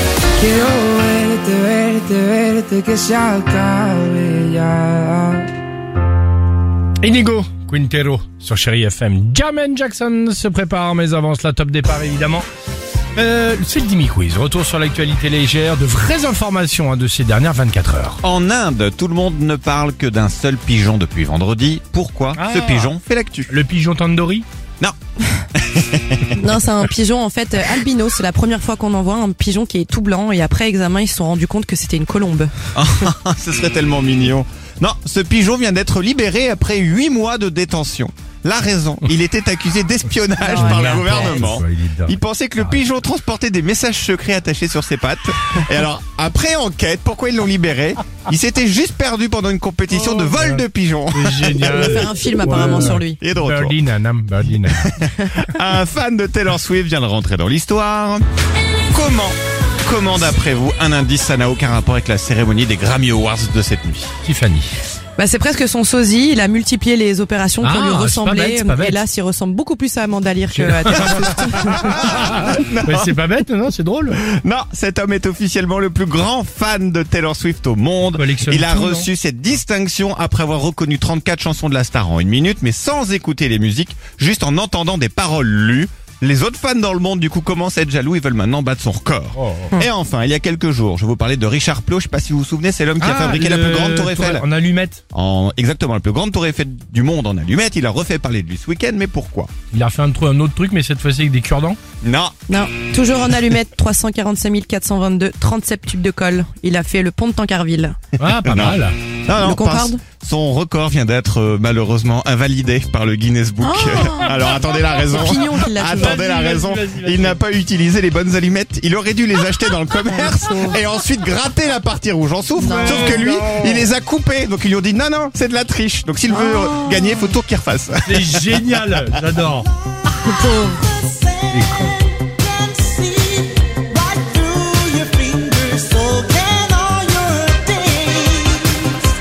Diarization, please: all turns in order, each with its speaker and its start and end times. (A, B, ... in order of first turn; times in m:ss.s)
0:00.6-0:01.4 A
0:02.7-0:04.7 A
0:07.0-0:12.5 B
0:13.2-0:18.2 B
0:18.2-0:23.5 C
0:22.4-0:22.9 B
0:23.5-0:24.5 B
0:25.6-0:26.4 C
0:26.4-0:32.5 D
0:32.8-0:52.1 C
0:40.4-0:42.8 B
0:40.5-0:41.3 D
0:49.9-0:54.9 B
0:51.6-0:53.2 D
0:53.2-0:53.8 C
0:54.8-0:58.2 C
0:58.9-1:04.1 C
1:04.2-1:04.7 B
1:05.2-1:11.9 D
1:07.6-1:09.0 B
1:10.5-1:14.2 B
1:11.0-1:13.1 C
1:14.2-1:34.4 C
1:18.1-1:19.1 B
1:29.4-1:29.7 B
1:33.0-1:35.0 B
1:35.1-1:39.5 C
1:39.7-1:41.8 B
1:42.0-1:42.4 C
1:42.5-1:48.0 D
1:48.2-1:49.0 B
1:48.4-2:09.0 C
1:49.4-1:50.0 D
1:53.6-1:54.3 D
1:54.9-1:56.3 D
1:56.0-1:57.4 B
2:00.1-2:00.8 D
2:02.6-2:03.2 D
2:02.7-2:03.9 B
2:06.3-2:07.4 D
2:08.0-2:09.7 B
2:10.2-2:10.8 D
2:11.5-2:12.0 B
2:14.1-2:18.3 B